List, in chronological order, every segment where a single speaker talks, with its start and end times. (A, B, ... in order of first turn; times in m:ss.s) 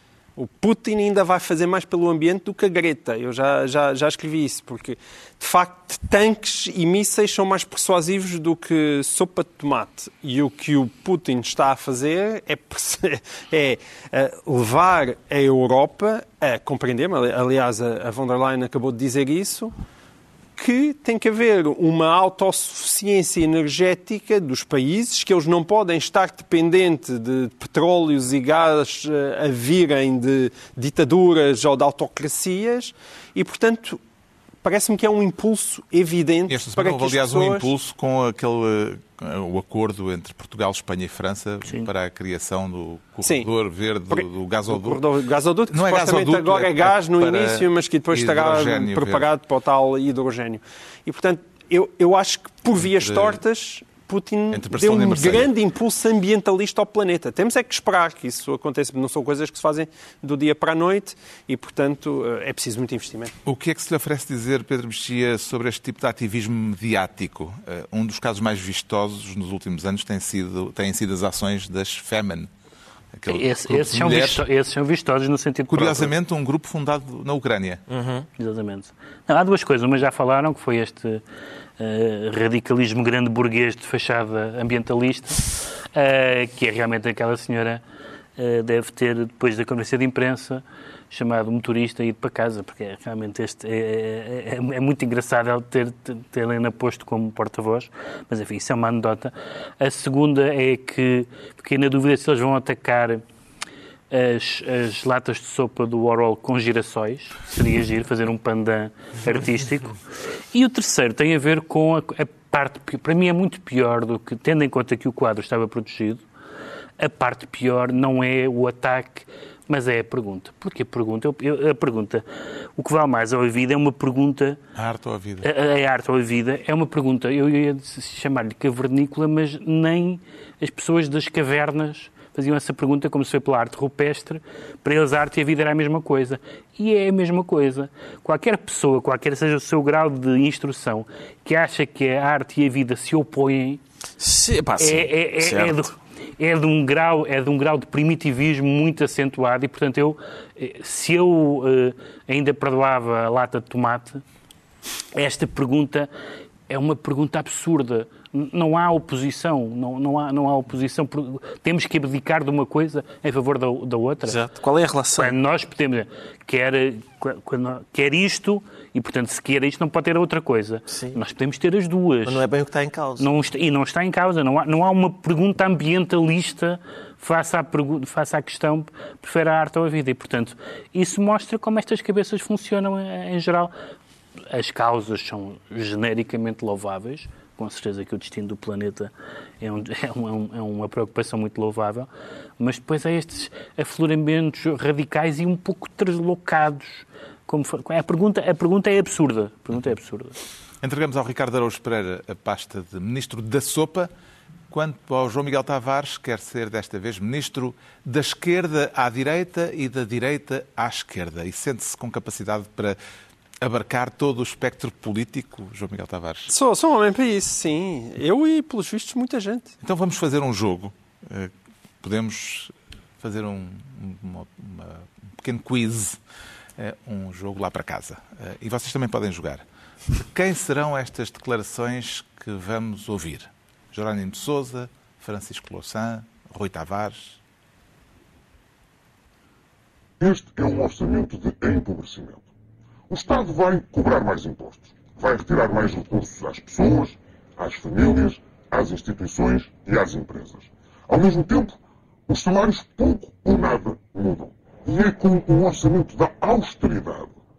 0:00.4-0:19.7 A
0:20.6-0:34.0 A
0:34.6-0:37.7 A
0:36.5-0:45.0 B
0:44.1-1:03.3 A
0:45.7-0:49.3 B
0:52.8-0:53.4 B
0:54.5-0:55.5 B
1:03.4-1:12.5 B
1:13.1-1:14.4 B
1:13.3-1:16.1 C
1:15.7-1:17.8 B
1:17.9-1:18.3 D
1:18.4-1:21.2 C
1:21.8-1:27.8 C
1:28.4-1:43.2 C
1:44.1-1:50.0 C
1:50.5-1:56.2 C
1:57.0-2:02.2 C
2:02.8-2:04.6 C
2:04.8-2:05.5 B
2:05.4-2:23.8 C
2:24.2-2:25.9 D
2:24.8-2:34.2 C
2:35.1-2:36.1 C
2:36.7-2:44.4 C
2:44.3-2:45.4 D
2:45.2-2:52.4 C
2:50.9-2:51.2 D
2:52.3-2:53.4 D
2:53.2-3:03.7 C
3:04.5-3:20.4 C
3:20.8-3:24.1 B
3:24.7-3:33.0 B
3:33.6-3:36.5 B
3:36.5-3:39.7 A
3:39.8-3:46.2 B
3:46.8-3:49.6 B
3:50.2-3:57.4 B
4:00.2-4:02.5 E
4:03.1-4:11.8 E
4:12.3-4:17.4 E